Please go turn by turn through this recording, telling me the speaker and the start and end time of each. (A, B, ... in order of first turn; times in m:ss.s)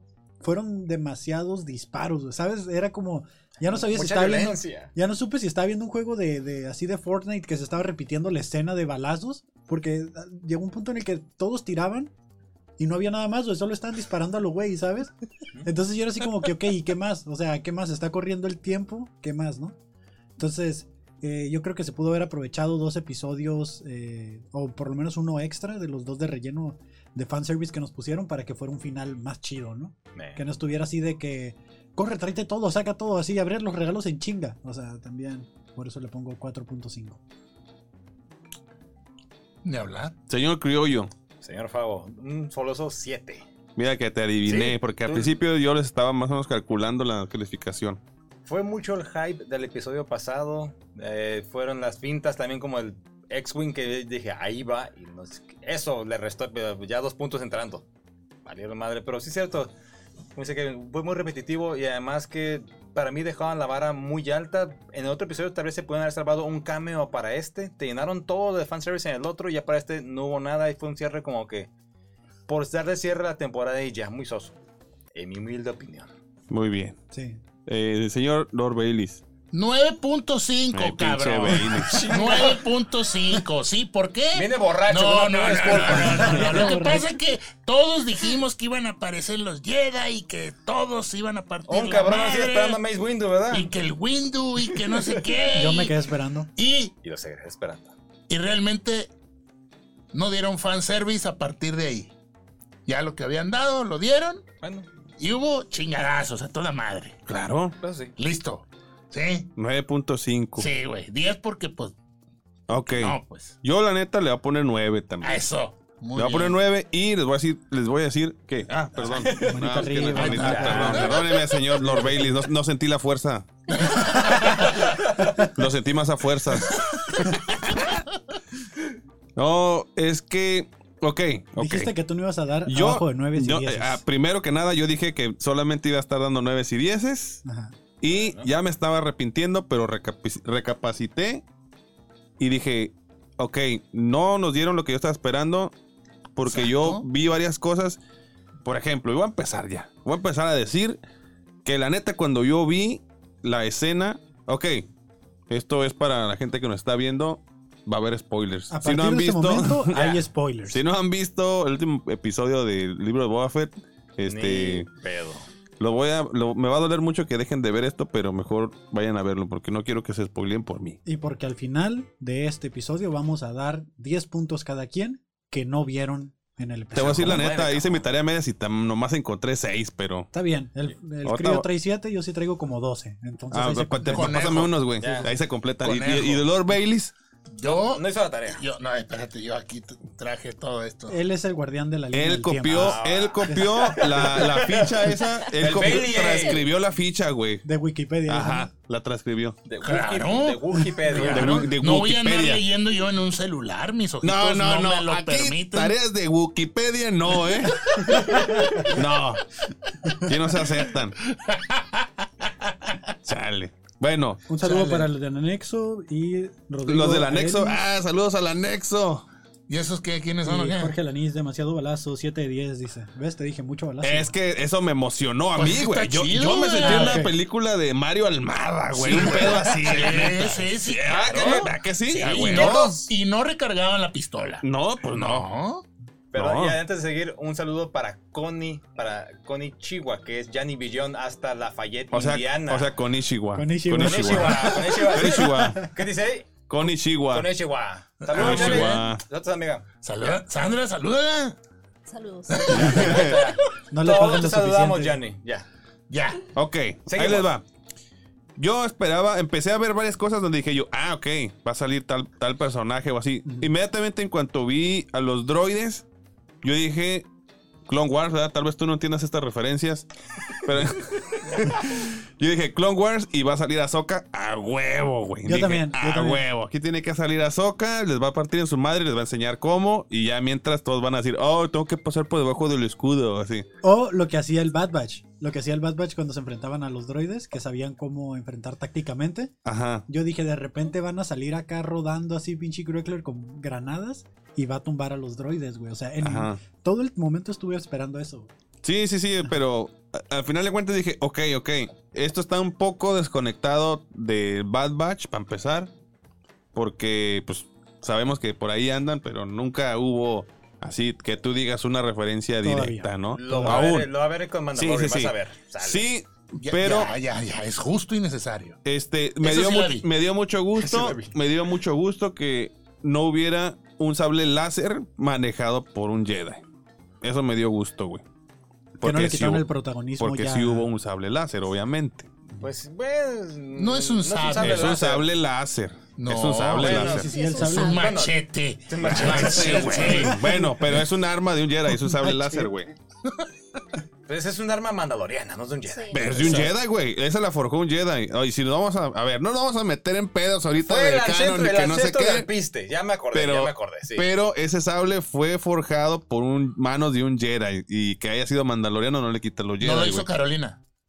0:00.4-0:12.1 A
0:03.8-0:04.9 B
0:12.8-0:19.8 A
0:20.4-0:37.2 A
0:30.2-0:30.4 B
0:39.6-0:40.2 C
0:40.3-0:41.1 D
0:41.4-0:43.4 B
0:43.8-0:48.0 D
0:44.4-0:45.4 B
0:48.5-0:57.8 B
0:58.4-0:59.7 B
1:00.4-1:11.7 B
1:12.5-1:14.6 B
1:15.1-1:16.1 B
1:16.5-1:17.0 D
1:17.1-1:17.4 A
1:17.7-1:19.2 D
1:19.5-1:32.8 C
1:20.7-1:22.0 D
1:21.8-1:22.7 B
1:24.3-1:26.8 B
1:25.8-1:27.1 A
1:31.7-1:33.7 B
1:33.5-1:35.9 C
1:34.7-1:35.2 B
1:35.5-1:36.5 A
1:36.6-1:36.9 C
1:37.0-1:37.9 B
1:38.3-1:39.1 C
1:40.1-1:42.1 C
1:42.9-1:44.4 C
1:44.6-1:44.9 B
1:45.2-1:47.2 C
1:47.3-1:47.8 D
1:47.8-1:48.1 B
1:48.2-1:49.5 C
1:49.6-1:50.7 D
1:50.6-1:51.9 C
1:52.7-1:55.4 D
1:52.8-1:53.6 C
1:55.2-1:56.6 C
1:56.2-2:03.8 D
1:59.0-2:00.0 B
1:59.4-2:02.5 A
2:00.1-2:01.3 C
2:04.0-2:05.4 B
2:05.4-2:07.4 D
2:09.4-2:11.9 D
2:11.6-2:14.0 A
2:12.7-2:17.4 D
2:17.4-2:17.8 A
2:18.0-2:21.4 D
2:18.1-2:18.5 B
2:22.4-2:25.7 D
2:26.4-2:28.0 D
2:26.4-2:27.1 C
2:28.6-2:31.0 D
2:31.6-2:34.9 D
2:35.5-2:40.0 D
2:38.7-2:40.8 A
2:39.9-2:40.2 B
2:40.7-2:44.9 D
2:44.2-2:45.4 B
2:45.8-2:51.0 D
2:51.0-2:57.5 A
2:57.0-3:00.3 D
2:57.0-2:58.1 B
3:00.3-3:04.6 A
3:01.2-3:01.7 D
3:03.5-3:07.1 D
3:04.1-3:06.5 C
3:05.0-3:05.3 B
3:07.5-3:11.2 C
3:07.6-3:08.6 B
3:11.1-3:14.4 A
3:12.1-3:17.6 D
3:12.7-3:16.6 B
3:15.9-3:16.7 E
3:17.6-3:18.7 A
3:18.3-3:19.6 D
3:19.6-3:21.7 B
3:19.8-3:26.0 C
3:21.2-3:22.6 D
3:24.2-3:28.0 D
3:28.0-3:28.9 B
3:28.3-3:28.8 A
3:28.9-3:29.4 D
3:30.2-3:31.2 D
3:31.3-3:33.0 C
3:33.2-3:34.4 D
3:34.5-3:37.8 A
3:34.6-3:35.1 C
3:36.8-3:39.3 D
3:39.7-3:41.0 C
3:40.4-3:44.3 A
3:44.0-3:53.0 D
3:45.6-3:47.3 C
3:46.8-3:47.4 A
3:48.9-3:55.9 C
3:49.3-3:49.6 A
3:52.1-3:53.1 B
3:54.6-3:55.5 D
3:56.3-4:02.9 B
3:56.3-3:56.8 D
4:02.1-4:05.8 D
4:03.6-4:05.9 A
4:04.0-4:06.5 B
4:06.7-4:07.5 D
4:07.3-4:09.8 B
4:08.2-4:09.1 C
4:08.3-4:09.2 D
4:10.0-4:11.6 C
4:12.1-4:13.2 E
4:12.5-4:13.3 C
4:12.7-4:13.4 D
4:12.8-4:15.7 B
4:13.9-4:15.2 A
4:16.1-4:16.4 C
4:16.6-4:17.6 D
4:17.1-4:17.5 B
4:18.6-4:26.1 D
4:23.4-4:23.7 A
4:26.6-4:27.3 D
4:27.9-4:30.1 D
4:30.6-4:43.7 D
4:35.4-4:36.4 A
4:43.8-4:49.5 A
4:49.6-4:50.1 D
4:50.1-4:58.5 A
4:56.2-4:56.6 D
4:58.8-5:05.9 D
5:06.7-5:14.1 D
5:12.6-5:13.9 A
5:13.3-5:16.1 B
5:14.8-5:17.1 D
5:16.6-5:18.8 C
5:18.8-5:26.6 D
5:19.4-5:20.1 C
5:20.8-5:21.4 B
5:27.2-5:28.2 D
5:29.0-5:29.7 D
5:29.0-5:30.9 A
5:30.2-5:32.3 D
5:32.6-5:35.3 B
5:33.8-5:35.0 C
5:34.6-5:37.3 D
5:36.2-5:40.6 C
5:36.8-5:40.3 B
5:36.9-5:38.1 A
5:37.2-5:38.0 E
5:39.0-5:42.9 D
5:40.3-5:40.7 A
5:42.0-5:42.7 A
5:44.3-5:46.4 B
5:45.9-5:46.4 E
5:46.1-5:52.5 D
5:46.1-5:46.7 C
5:50.8-5:54.3 B
5:53.3-6:00.3 D
5:59.8-6:00.8 C